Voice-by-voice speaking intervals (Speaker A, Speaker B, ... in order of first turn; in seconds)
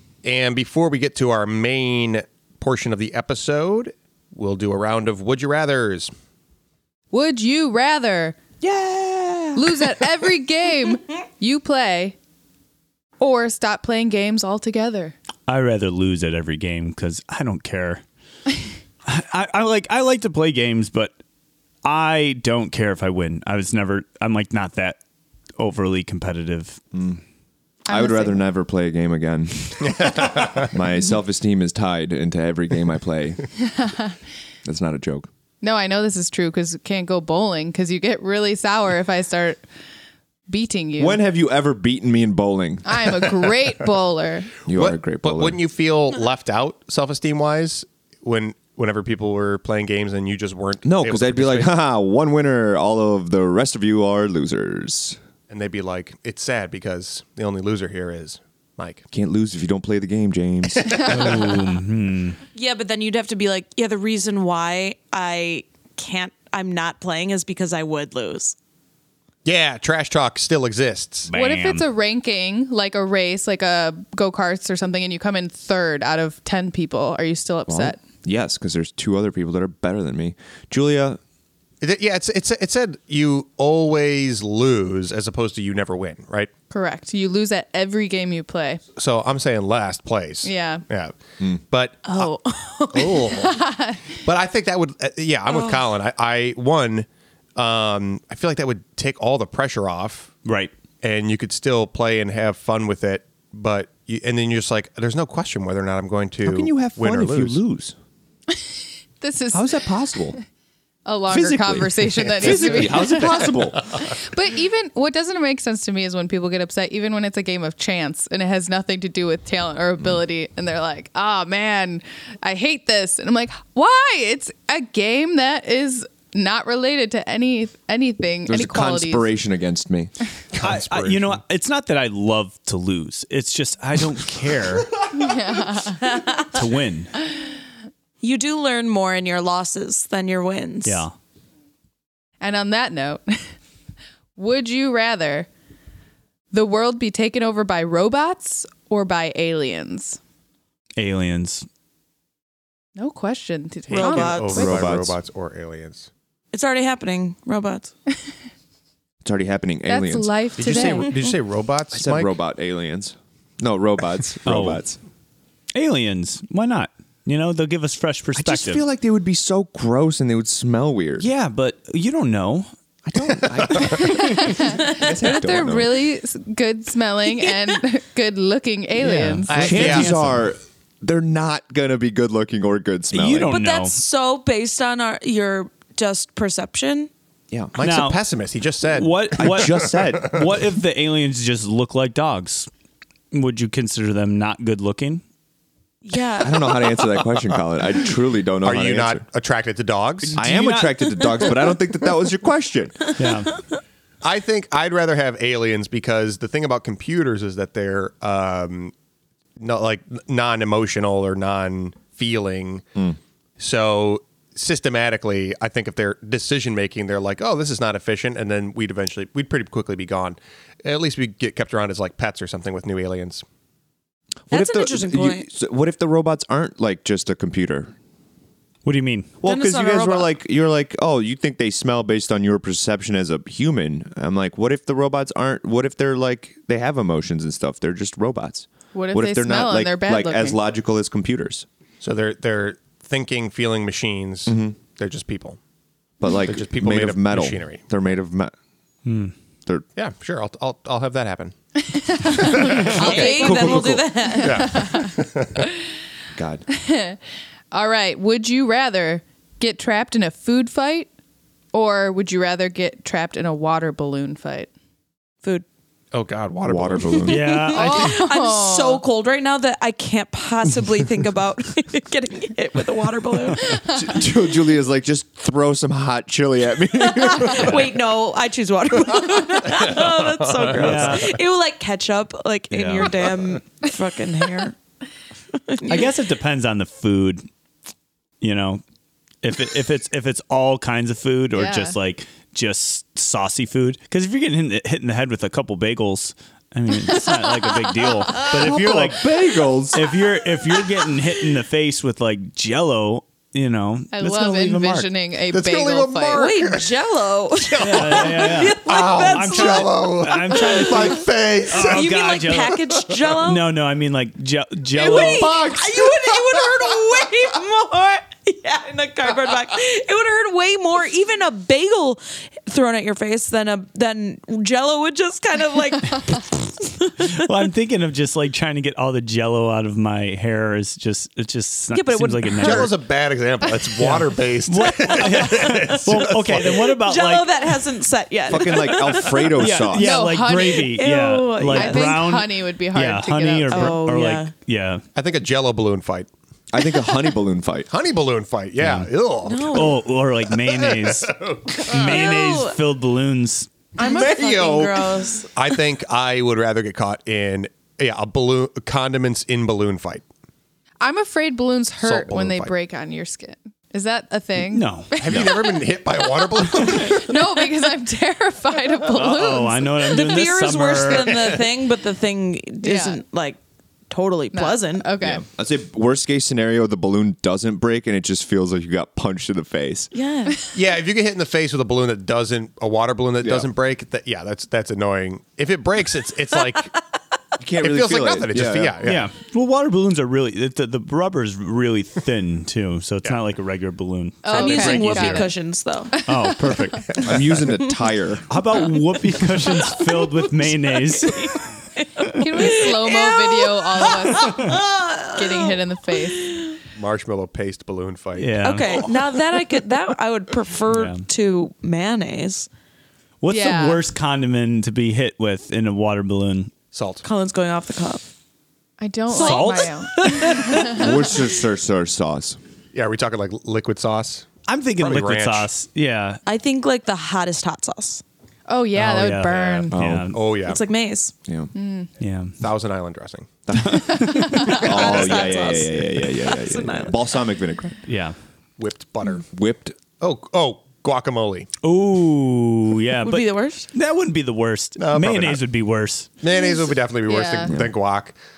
Speaker A: 0.2-6.1, 29.8-30.7, 44.7-51.7, 55.5-59.0, 60.7-61.6, 69.4-71.3, 81.8-86.5, 89.0-92.3, 92.9-93.6, 94.2-100.3, 101.0-107.6, 112.4-112.8, 130.5-131.4, 153.9-156.1, 160.6-162.3, 173.4-174.0, 179.5-180.2, 187.8-190.4, 198.6-200.4, 204.2-208.9, 209.6-212.8, 213.6-223.4, 242.0-245.6, 246.4-247.8, 249.9-251.5, 252.2-253.7, 254.4-255.7, 266.1-268.0, 279.6-281.1, 305.5-306.9, 307.6-312.2, 312.8-313.3, 315.0-316.6, 332.6-336.8, 345.1-346.3, 347.9-352.2, 354.0-360.2, 362.0-362.7, 365.2-367.4, 371.2-371.7, 380.7-386.9, 387.8-389.3, 406.9-409.1, 416.9-417.2, 422.9-425.7, 429.5-430.8, 432.6-433.6, 438.8-439.4, 440.2-441.7, 445.0-445.6, 446.4-448.4
Speaker B: 7.1-8.3, 9.5-12.2, 13.2-15.1, 27.9-28.4, 33.7-34.1, 35.6-39.6, 40.5-41.2, 42.8-44.5, 71.3-78.0, 86.7-88.8, 90.4-90.8, 93.3-94.0, 109.2-109.7, 111.0-129.3, 135.1-136.0, 142.4-143.5, 144.3-145.5, 146.5-150.2, 153.0-154.8, 159.9-161.1, 173.9-179.7, 238.9-240.6, 251.8-255.1, 256.7-257.2, 257.7-261.1, 261.7-264.7, 267.7-269.0, 273.6-274.2, 291.5-292.0, 304.1-306.4, 339.9-341.0, 341.7-344.0, 361.0-365.8, 366.4-370.3, 372.8-373.2, 374.5-375.4, 394.4-395.5, 396.1-397.2, 402.3-404.8, 405.3-406.6, 413.5-414.0, 419.0-421.0, 428.7-430.0, 431.7-432.1, 434.1-434.8, 447.3-447.7
Speaker C: 8.6-10.0, 26.9-27.2, 27.9-33.5, 34.6-35.3, 41.0-43.0, 44.6-45.6, 50.8-55.2, 59.1-61.3, 77.7-81.2, 106.4-108.0, 109.5-110.4, 111.3-113.8, 128.5-130.1, 154.5-155.2, 159.2-160.3, 161.9-165.0, 168.3-171.3, 173.1-175.9, 179.5-183.5, 187.5-187.8, 189.4-190.5, 196.4-199.2, 200.3-203.2, 224.5-227.9, 229.4-241.7, 244.5-244.7, 246.2-248.5, 253.2-254.1, 256.4-256.6, 266.6-267.6, 273.9-277.9, 280.8-281.1, 298.5-300.1, 338.5-340.1, 346.7-347.9, 375.2-380.1, 383.4-383.7, 387.6-389.0, 397.2-398.5, 420.9-422.6, 429.9-430.3, 431.4-431.7, 433.7-438.0, 439.5-439.9
Speaker D: 15.5-18.0, 19.0-21.1, 21.8-25.0, 25.6-26.8, 61.0-62.4, 71.3-71.8, 100.4-100.7, 130.6-134.9, 136.5-137.2, 140.8-141.1, 151.0-151.7, 164.4-164.8, 165.7-168.8, 171.2-172.7, 179.0-180.4, 183.1-184.0, 187.8-188.2, 188.9-192.7, 193.3-195.2, 200.2-201.5, 203.2-203.5, 228.8-229.4, 249.1-249.3, 267.2-268.1, 280.7-281.3, 282.7-283.2, 285.9-287.5, 288.4-288.8, 289.4-299.3, 299.9-305.1, 307.8-312.8, 313.4-315.7, 327.2-332.9, 334.0-337.6, 339.5-345.0, 348.8-349.1, 349.7-351.3, 351.9-353.7, 364.7-365.2, 369.1-371.5, 389.0-395.5, 396.2-397.3, 398.5-401.6, 404.5-404.8, 408.4-409.0, 410.9-411.2, 413.4-416.7, 419.3-421.0, 424.6-426.4, 428.9-430.4, 432.2-432.6, 433.7-434.9, 438.1-438.3, 441.8-446.3
Speaker E: 62.5-68.5, 92.0-93.3, 95.5-95.8, 136.0-136.5, 138.2-141.0, 153.9-154.8, 156.5-157.9, 183.5-187.1, 196.0-197.1, 201.2-201.5, 203.2-203.6, 224.5-225.5, 229.4-230.3, 252.5-254.9, 267.4-273.8, 277.0-284.7, 285.5-286.1, 306.3-313.6, 314.9-327.4, 331.9-332.9, 335.1-339.7, 340.7-342.2, 343.7-344.5, 349.4-350.0, 351.9-352.8, 354.0-355.5, 370.1-373.6, 374.1-375.1, 380.1-380.6, 394.5-396.1, 399.6-406.8, 408.6-412.7, 417.2-418.2, 419.3-421.4, 426.4-428.2, 430.6-431.3, 434.5-437.2, 443.2-443.9